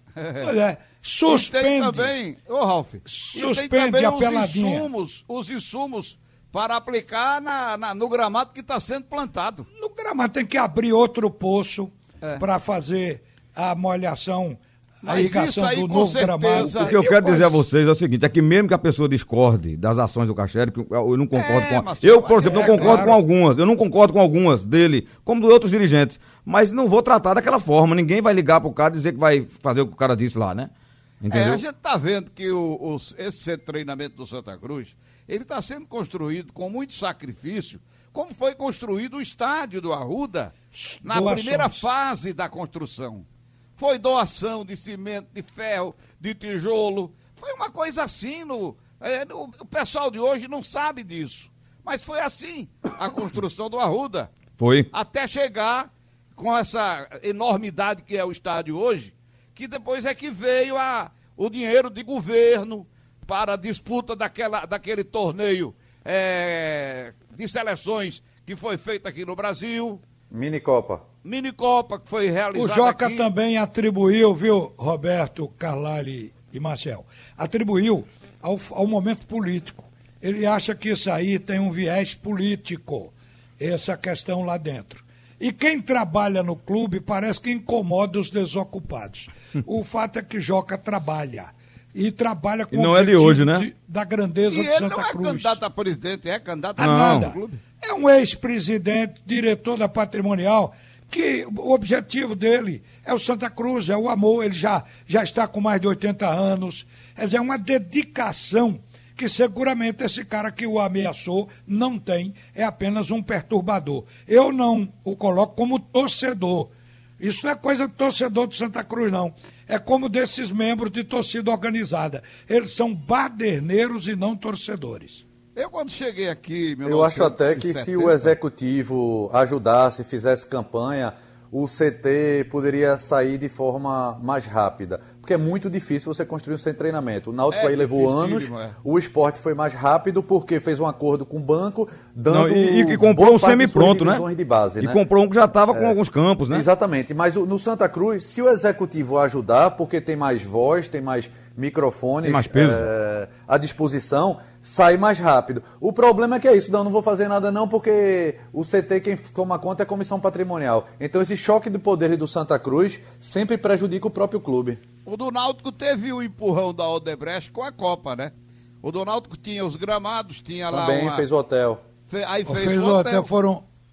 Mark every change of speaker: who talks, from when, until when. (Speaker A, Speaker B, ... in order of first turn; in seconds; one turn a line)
Speaker A: 0.2-0.5
Speaker B: 0.4-2.1
Speaker A: 1.3-9.7
Speaker B: 3.0-4.9
Speaker B: 9.8-17.6
Speaker A: 15.1-17.0
Speaker C: 16.6-30.7
Speaker A: 21.3-23.1
Speaker B: 22.5-23.2
Speaker C: 31.2-31.6
Speaker A: 31.3-40.5
Speaker B: 40.7-41.8
Speaker A: 41.0-43.2
Speaker A: 43.8-54.3
Speaker C: 54.6-54.9
Speaker A: 54.9-70.0
Speaker D: 70.3-71.0
Speaker A: 71.2-73.2
Speaker B: 72.5-95.6
Speaker C: 92.7-93.7
Speaker A: 94.5-97.6
Speaker B: 96.8-125.2
Speaker C: 96.8-97.3
Speaker A: 125.5-128.3
Speaker D: 126.8-145.0
Speaker A: 137.5-138.8
Speaker C: 142.3-144.2
Speaker C: 144.8-146.7
Speaker D: 145.7-146.0
Speaker D: 146.5-164.8
Speaker C: 152.2-152.9
Speaker A: 165.1-171.3
Speaker D: 170.7-171.8
Speaker A: 172.1-173.3
Speaker B: 172.5-173.7